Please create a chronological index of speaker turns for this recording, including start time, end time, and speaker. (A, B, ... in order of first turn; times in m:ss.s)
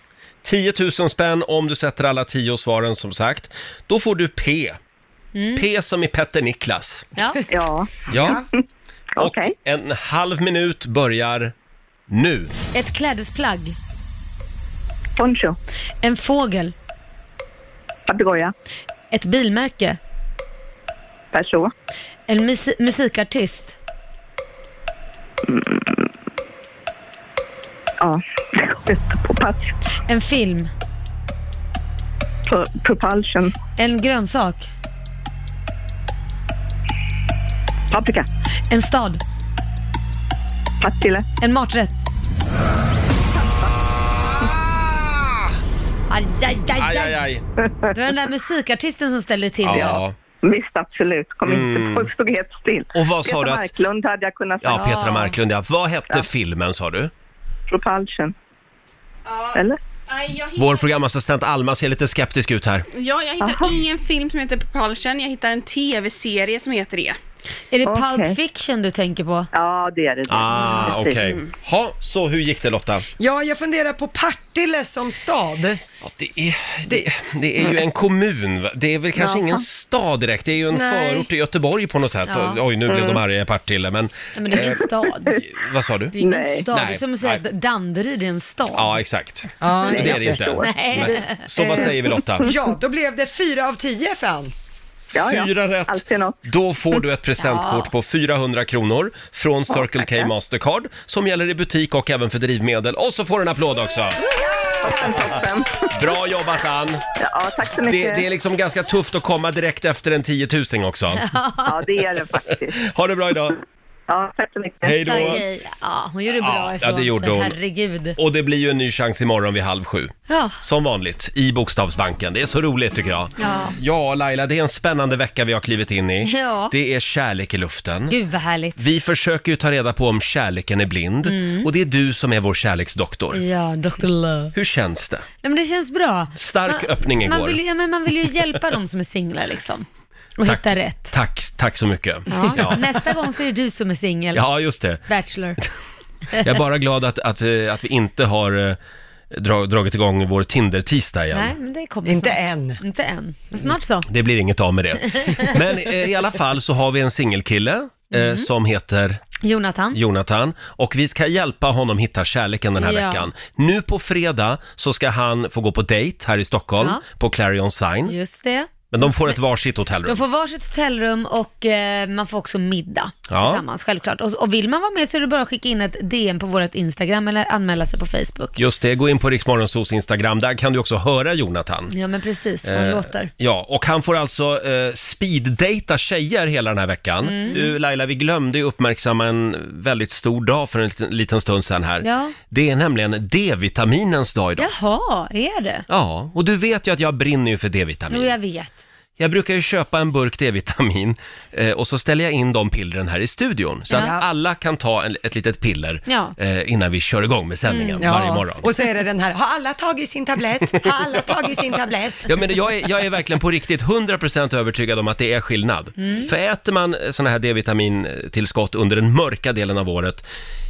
0:00.4-0:04.8 A
0:05.4-0:05.6 B
0:05.6-0:07.1 A
0:07.2-0:07.4 B
0:07.5-0:08.4 C
0:08.1-0:08.4 A
0:09.2-0:09.5 C
0:09.2-0:11.5 A
0:12.1-0:12.5 A
0:12.7-0:13.8 B
0:15.2-0:15.6 C
0:16.0-0:16.7 B
0:18.1-0:18.5 C
0:19.1-0:20.0 B
0:21.3-0:21.7 C
0:22.3-0:23.8 B
0:25.5-0:26.1 C
0:28.0-0:29.7 C
0:30.1-0:30.7 B
0:32.5-0:33.5 C
0:33.8-0:34.7 B
0:37.9-0:38.3 C
0:38.7-0:39.2 B
0:40.8-0:41.2 C
0:41.4-0:42.0 B
0:46.1-0:47.2 B
0:46.8-0:47.4 A
0:47.9-0:50.0 B
0:49.6-0:50.2 A
0:49.7-0:54.8 C
0:51.4-0:52.1 A
0:52.9-0:53.7 A
0:54.6-0:57.1 A
0:54.7-0:55.4 B
0:57.7-0:58.3 C
0:59.3-1:01.0 D
0:59.5-0:59.8 C
1:00.6-1:02.9 A
1:02.9-1:07.2 D
1:03.4-1:03.8 C
1:07.7-1:09.5 B
1:07.9-1:08.4 C
1:09.5-1:11.4 C
1:10.3-1:13.0 A
1:13.2-1:15.8 E
1:16.0-1:24.8 A
1:19.2-1:19.6 C
1:20.7-1:21.3 E
1:22.3-1:22.6 B
1:22.9-1:23.2 C
1:24.4-1:25.4 B
1:25.4-1:26.2 A
1:26.2-1:29.0 B
1:26.2-1:26.7 C
1:26.7-1:27.4 A
1:28.8-1:32.5 A
1:29.6-1:30.6 E
1:29.9-1:31.9 C
1:30.6-1:31.4 B
1:32.4-1:34.5 E
1:35.1-1:36.4 C
1:35.2-1:44.2 A
1:37.4-1:37.9 B
1:39.7-1:40.3 C
1:44.8-1:45.8 C
1:44.9-1:45.2 A
1:45.9-1:47.0 A
1:47.2-1:48.3 C
1:47.8-1:51.2 A
1:51.2-1:51.8 B
1:51.7-1:52.8 C
1:52.5-1:53.6 A
1:54.1-1:55.4 C
1:54.8-1:55.4 A
1:55.0-1:58.2 B
1:56.3-1:57.6 A
1:58.2-2:08.2 A
2:00.3-2:00.6 B
2:03.4-2:03.8 B
2:06.2-2:06.7 B
2:08.1-2:08.8 B
2:08.8-2:13.4 A
2:11.2-2:11.7 B
2:13.3-2:14.6 B
2:14.5-2:15.3 A
2:15.4-2:19.9 B
2:16.4-2:17.6 A
2:20.4-2:21.1 B
2:20.4-2:22.9 A
2:22.3-2:24.5 B
2:24.3-2:25.0 A
2:25.0-2:25.6 B
2:26.4-2:28.8 A
2:29.3-2:31.5 A
2:31.3-2:34.1 B
2:32.0-2:32.8 E
2:34.1-2:39.2 A
2:35.1-2:35.6 B
2:38.1-2:38.5 B
2:39.4-2:40.0 B
2:39.9-2:48.2 A
2:42.8-2:43.3 B
2:48.1-2:49.4 B
2:48.9-2:50.2 A
2:50.0-2:58.6 B
2:53.3-2:53.6 A
2:58.6-3:01.9 A
3:01.9-3:03.3 B
3:02.6-3:14.7 A
3:07.2-3:07.7 B
3:12.0-3:12.4 B
3:14.6-3:15.9 B
3:15.9-3:18.4 A
3:18.1-3:18.8 B
3:19.2-3:28.7 A
3:23.9-3:24.2 E
3:26.1-3:26.4 B
3:27.7-3:28.0 B
3:28.0-3:32.3 E
3:32.3-3:40.2 A
3:36.0-3:36.3 B